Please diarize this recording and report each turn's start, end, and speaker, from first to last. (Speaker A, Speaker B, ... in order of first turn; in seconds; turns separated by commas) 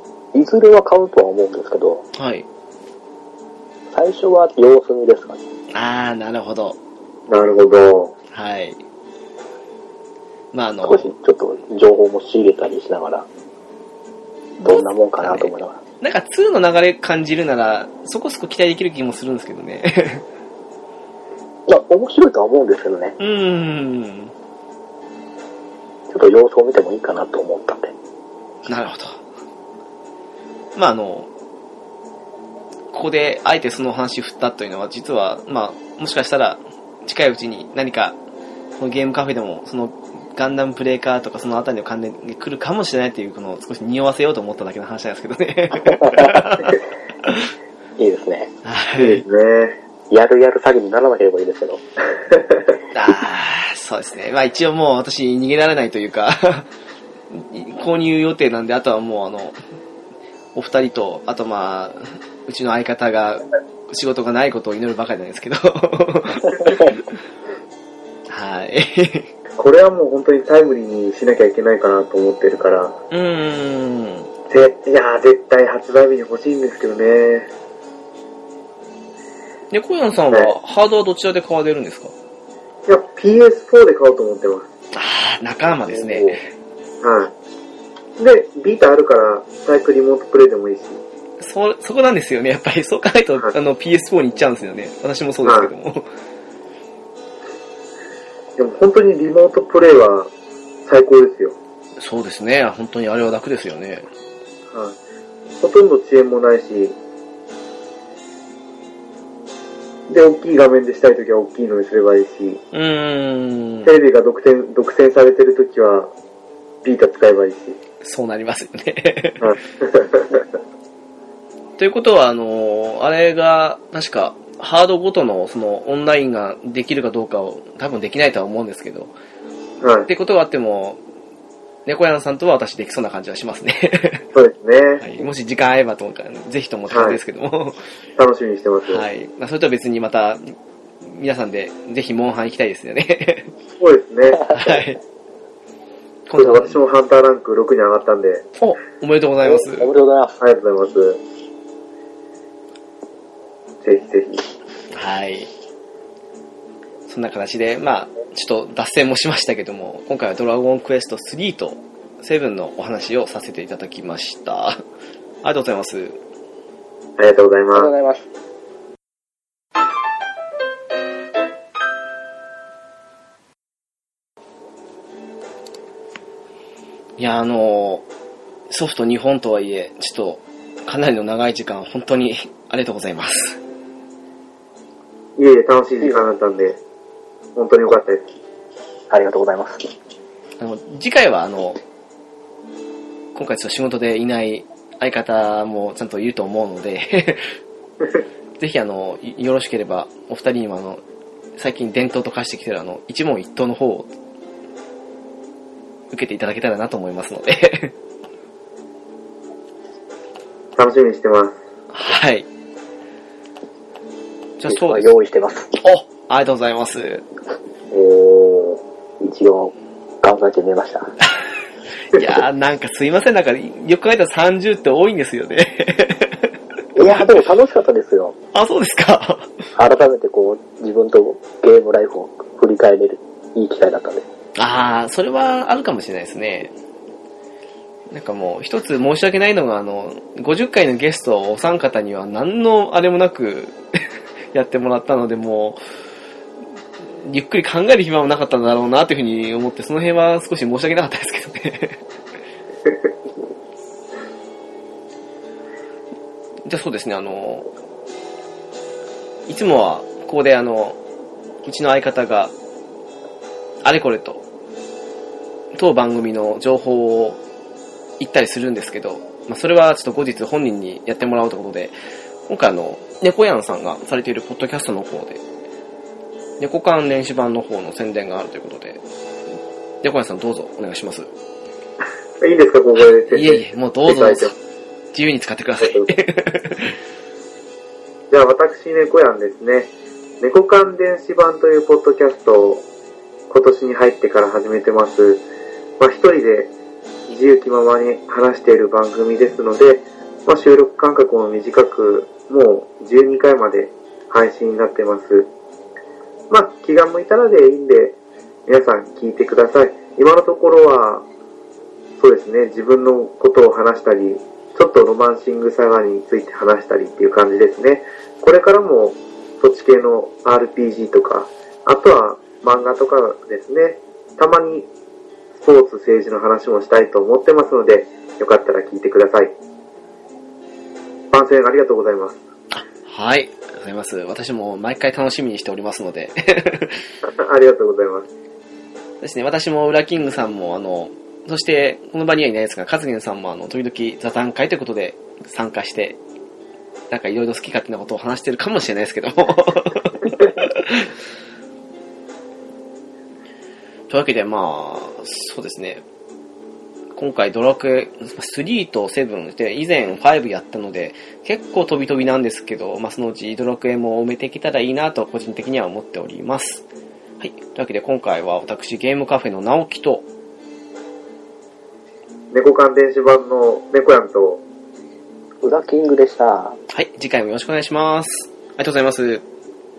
Speaker A: 0.3-2.0, Speaker B: 2.1-2.5, Speaker A: 3.9-5.4, Speaker B: 5.7-6.8, Speaker C: 7.3-8.1, Speaker B: 8.3-8.8, Speaker B: 10.5-11.1, Speaker A: 10.8-13.2, Speaker B: 14.6-20.2, Speaker A: 14.6-15.8, Speaker A: 21.7-23.2, Speaker B: 23.2-24.3, Speaker A: 26.1-27.9, Speaker B: 28.6-29.2, Speaker B: 30.7-31.3, Speaker B: 32.9-38.1, Speaker B: 38.8-47.5, Speaker A: 46.1-46.5, Speaker A: 48.0-48.5, Speaker B: 48.6-49.2, Speaker C: 49.0-49.8, Speaker A: 50.1-51.8, Speaker B: 52.9-56.7, Speaker B: 57.3-59.6, Speaker B: 60.5-67.1, Speaker A: 66.6-66.9, Speaker B: 68.3-69.3, Speaker C: 69.6-72.9, Speaker B: 73.1-74.3, Speaker C: 74.5-77.5, Speaker B: 79.7-82.1, Speaker C: 82.9-84.7, Speaker B: 84.9-86.5, Speaker C: 87.0-87.3, Speaker C: 88.2-91.0, Speaker B: 91.4-96.1, Speaker C: 95.4-95.7, Speaker C: 98.6-100.3, Speaker C: 100.9-101.6, Speaker B: 102.0-104.1, Speaker C: 104.7-105.0, Speaker C: 105.6-107.0, Speaker C: 110.1-112.6, Speaker B: 112.7-113.9, Speaker C: 113.8-116.1, Speaker C: 116.8-117.8, Speaker B: 118.0-119.4, Speaker C: 119.4-120.4, Speaker B: 121.8-129.1, Speaker C: 129.8-130.1, Speaker B: 130.1-131.0, Speaker B: 131.9-134.2, Speaker C: 134.3-135.0, Speaker B: 135.0-137.8, Speaker C: 136.9-137.2, Speaker C: 138.2-139.1, Speaker B: 138.9-143.5, Speaker C: 143.8-144.5, Speaker B: 144.5-145.0, Speaker B: 146.3-146.8, Speaker C: 146.4-148.5, Speaker B: 148.6-149.9, Speaker A: 149.4-150.4, Speaker C: 150.4-151.2, Speaker C: 153.8-154.4, Speaker B: 154.9-155.5, Speaker B: 157.1-164.8, Speaker B: 165.4-166.2, Speaker C: 167.2-167.9, Speaker A: 167.7-168.3, Speaker B: 177.2-178.1, Speaker B: 178.7-183.6, Speaker C: 185.4-186.8, Speaker C: 187.6-188.2, Speaker A: 189.1-189.9, Speaker B: 190.6-191.8, Speaker B: 193.3-197.6, Speaker B: 198.6-201.0, Speaker B: 201.6-204.1, Speaker B: 206.1-207.9, Speaker C: 210.8-211.6, Speaker B: 211.9-212.5, Speaker B: 214.6-215.1, Speaker A: 214.6-215.7, Speaker B: 215.7-217.2, Speaker C: 217.9-218.7, Speaker A: 219.2-221.2, Speaker B: 222.1-226.5, Speaker A: 226.9-228.3, Speaker B: 227.1-227.3, Speaker B: 228.5-229.5, Speaker A: 229.8-234.2, Speaker B: 234.6-236.7, Speaker B: 238.1-245.8, Speaker B: 247.2-252.0, Speaker B: 256.6-257.7, Speaker B: 259.5-261.0, Speaker B: 261.6-262.5, Speaker B: 263.8-264.4, Speaker B: 265.7-267.4, Speaker B: 268.2-271.9, Speaker B: 272.4-275.4, Speaker B: 276.6-279.0, Speaker B: 280.0-281.3, Speaker C: 282.4-284.5, Speaker B: 283.0-284.5, Speaker B: 285.1-287.0, Speaker C: 285.8-286.1, Speaker C: 288.3-292.8, Speaker C: 293.5-295.4, Speaker C: 296.0-296.7, Speaker C: 297.3-305.5, Speaker C: 306.5-311.2, Speaker C: 312.2-324.9, Speaker C: 325.6-329.5, Speaker C: 331.3-332.4, Speaker B: 332.7-337.1, Speaker C: 337.2-338.3, Speaker B: 339.2-346.2, Speaker B: 347.1-351.1, Speaker B: 354.1-356.1, Speaker B: 357.1-366.8, Speaker B: 367.4-370.2, Speaker C: 372.5-374.6, Speaker A: 375.6-376.8, Speaker B: 376.9-379.4